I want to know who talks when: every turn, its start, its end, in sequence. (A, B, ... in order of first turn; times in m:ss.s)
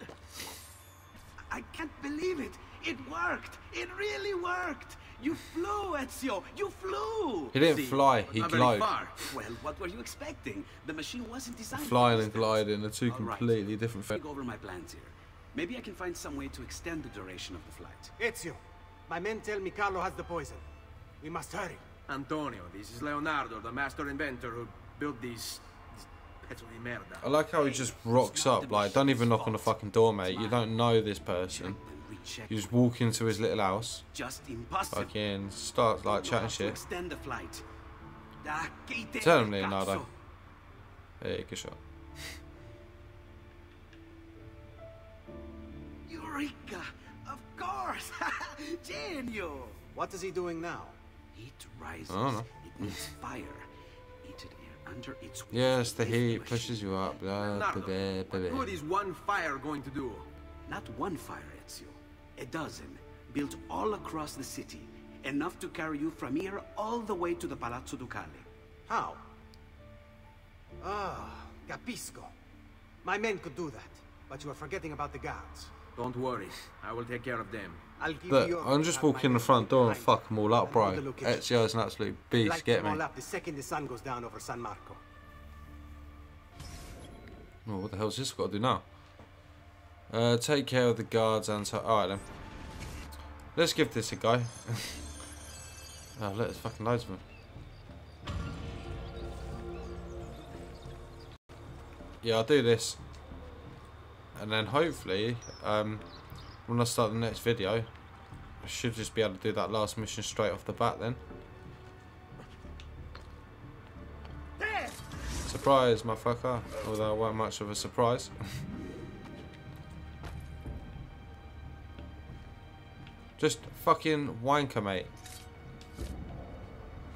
0:01.5-0:07.6 A
0:07.5-0:09.0 B
0:07.6-0:09.2 C
0:09.2-0:18.1 A
0:11.7-0:14.2 B
0:18.2-0:20.6 D
0:21.2-0:21.8 D
0:22.1-0:27.2 C
0:27.2-0:31.8 B
0:27.5-0:30.6 A
0:31.5-0:32.8 A
0:32.5-0:34.0 B
0:34.1-0:35.1 A
0:34.9-0:36.8 B
0:36.0-0:37.6 A
0:38.4-0:40.1 A
0:39.2-0:40.0 B
0:41.2-0:42.4 B
0:46.1-0:49.8 A
0:49.9-0:51.0 D
0:51.3-0:53.6 A
0:52.1-0:53.1 B
0:54.2-0:56.9 A
0:55.5-0:58.8 B
0:57.4-1:00.3 C
1:00.7-1:08.5 A
1:08.9-1:09.2 D
1:10.8-1:12.3 D
1:13.0-1:15.7 D
1:16.0-1:17.8 C
1:18.0-1:21.5 D
1:18.3-1:23.0 B
1:22.4-1:25.0 D
1:27.6-1:28.9 B
1:30.1-1:32.2 B
1:33.5-1:35.1 B
1:36.2-1:37.2 B
1:42.2-1:43.0 B
1:44.3-1:46.0 B
1:46.6-1:47.9 B
1:48.6-1:51.2 B
1:55.4-1:58.6 B
2:03.4-2:05.1 B